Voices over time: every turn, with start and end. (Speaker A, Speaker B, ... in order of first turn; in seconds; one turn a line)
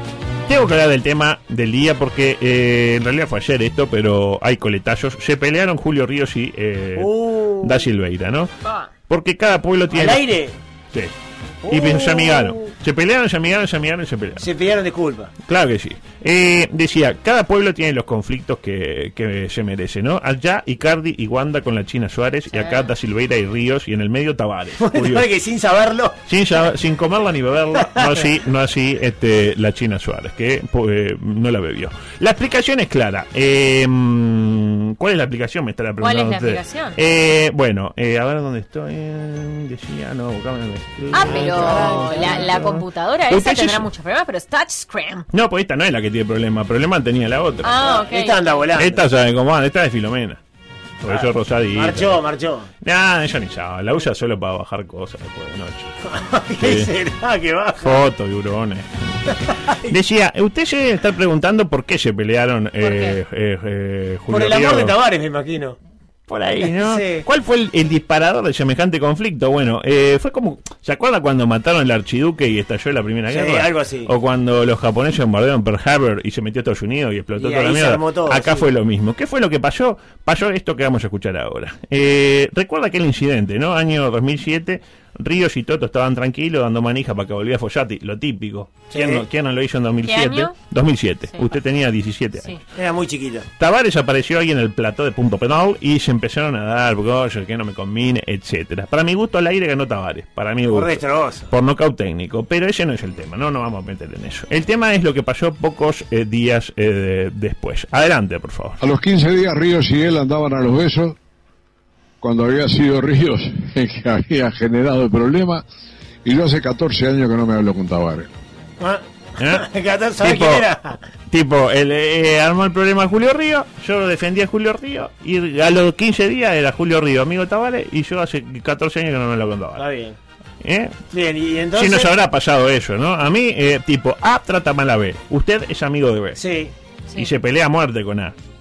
Speaker A: 0.5-8.5
Speaker B: 7.0-7.8
Speaker C: 8.6-8.9
Speaker A: 9.1-10.3
Speaker B: 9.9-10.5
Speaker B: 11.6-12.7
Speaker A: 11.7-14.5
Speaker B: 14.4-15.3
Speaker A: 15.4-25.3
Speaker C: 22.5-22.9
Speaker B: 24.8-26.2
Speaker A: 26.3-43.9
Speaker B: 27.8-28.3
Speaker C: 36.0-37.0
Speaker C: 41.1-45.3
Speaker B: 41.2-42.5
Speaker A: 45.3-47.8
Speaker C: 47.6-48.7
Speaker B: 47.8-49.0
Speaker A: 48.8-50.4
Speaker A: 51.0-52.2
Speaker B: 51.0-52.7
Speaker A: 52.8-55.9
Speaker B: 56.1-58.0
Speaker A: 56.6-56.9
Speaker A: 57.8-59.3
Speaker B: 59.6-59.9
Speaker A: 59.9-64.9
Speaker C: 62.8-63.2
Speaker B: 64.3-65.8
Speaker A: 66.3-92.6
Speaker B: 66.6-67.2
Speaker B: 73.3-74.1
Speaker B: 77.4-78.7
Speaker B: 88.9-89.2
Speaker C: 90.0-90.5
Speaker B: 92.8-93.5
Speaker A: 93.6-108.8
Speaker B: 100.7-101.5
Speaker D: 108.8-111.2
Speaker D: 112.2-115.6
Speaker D: 116.2-118.3
Speaker B: 118.8-121.0
Speaker A: 119.4-119.7
Speaker A: 120.2-120.7
Speaker A: 121.3-129.8
Speaker B: 129.8-130.2
Speaker A: 130.6-131.0
Speaker B: 131.1-132.1
Speaker A: 131.7-136.4
Speaker B: 136.4-136.7
Speaker A: 137.2-138.3